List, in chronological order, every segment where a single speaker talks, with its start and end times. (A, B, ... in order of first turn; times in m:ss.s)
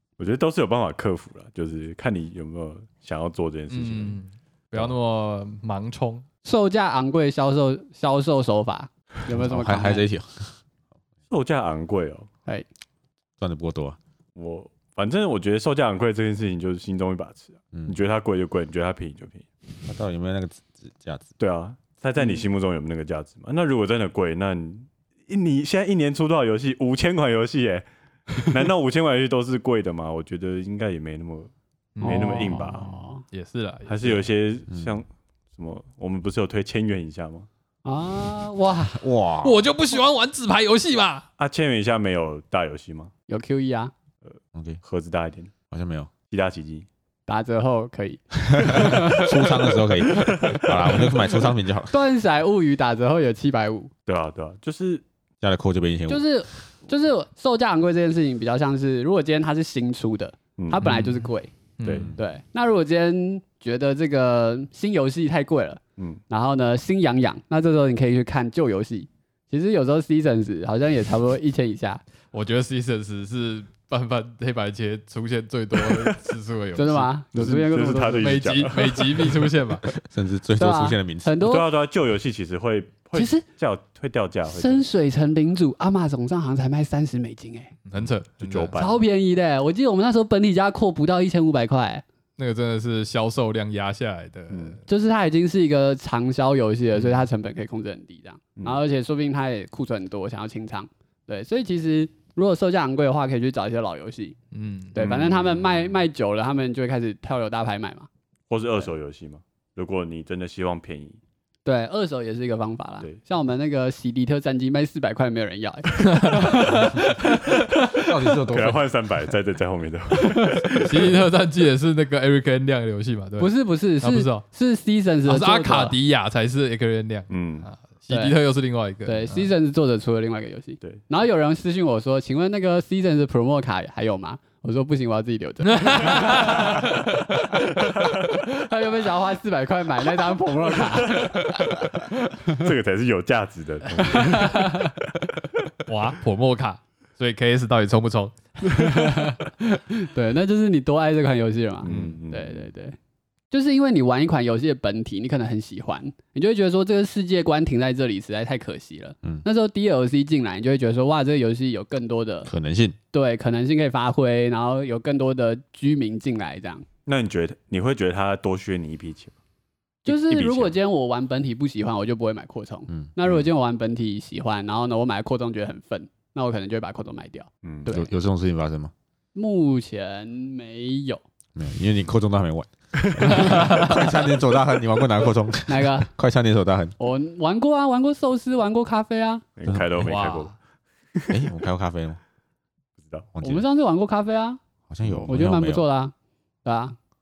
0:00.2-0:04.2 A
0:03.7-0:06.2 B
0:06.4-0:10.0 C
0:09.3-0:10.6 D
0:11.3-0:12.3 A
0:13.4-0:14.0 D
0:14.4-0:19.5 A
0:17.7-0:18.0 D
0:19.9-0:21.3 D
0:21.4-0:32.9 A
0:32.0-0:34.3 B
0:32.0-0:33.2 C
0:33.9-0:37.5 A
0:34.7-0:35.0 D
0:37.8-0:39.0 C
0:38.9-0:39.7 D
0:39.4-0:41.3 B
0:41.4-0:43.1 A
0:43.3-0:43.9 C
0:44.2-0:45.5 A
0:44.5-0:44.8 D
0:45.7-0:46.1 D
0:46.3-0:46.9 A
0:47.3-0:49.5 C
0:48.6-0:51.9 D
0:50.4-0:50.8 A
0:51.9-0:53.9 C
0:54.1-0:55.0 A
0:55.4-0:56.3 D
0:56.1-1:01.5 C
1:00.6-1:00.9 A
1:00.8-1:02.1 B
1:01.8-1:02.1 A
1:02.1-1:12.0 C
1:12.3-1:17.1 B
1:16.8-1:18.4 C
1:17.3-1:19.5 A
1:18.2-1:19.9 B
1:19.9-1:21.4 D
1:20.6-1:21.7 C
1:21.4-1:24.8 A
1:23.1-1:23.4 C
1:24.5-1:27.7 C
1:27.9-1:28.8 B
1:28.4-1:29.0 A
1:28.8-1:32.0 C
1:32.4-1:34.8 B
1:34.5-1:34.8 A
1:34.9-1:44.4 C
1:37.0-1:37.2 B
1:44.5-1:45.0 B
1:44.9-1:48.1 C
1:45.0-1:45.9 A
1:48.5-1:51.2 A
1:51.6-1:57.1 C
1:56.1-1:58.0 B
1:58.0-1:58.8 D
1:58.5-2:01.2 A
2:00.4-2:00.8 C
2:00.8-2:04.4 B
2:03.4-2:06.0 C
2:05.3-2:09.5 B
2:07.3-2:07.7 A
2:08.1-2:08.4 C
2:09.1-2:17.0 C
2:15.7-2:17.2 B
2:18.3-2:22.7 C
2:21.2-2:21.5 A
2:22.5-2:25.0 A
2:24.0-2:24.9 C
2:25.9-2:29.2 B
2:28.6-2:33.0 C
2:31.8-2:32.7 A
2:33.5-2:42.5 C
2:42.5-2:43.0 D
2:43.1-2:46.8 C
2:47.1-2:49.3 A
2:50.0-2:58.1 C
2:50.1-2:50.8 A
2:57.6-2:58.0 A
2:57.9-2:58.9 D
2:59.4-3:01.2 C
3:01.6-3:06.9 D
3:05.7-3:06.1 C
3:07.0-3:09.4 C
3:09.6-3:10.5 A
3:09.7-3:10.1 D
3:10.0-3:10.5 B
3:11.3-3:12.2 D
3:13.0-3:13.3 A
3:13.4-3:13.6 D
3:13.4-3:14.6 C
3:14.9-3:15.8 D
3:15.3-3:16.1 C
3:16.6-3:17.0 C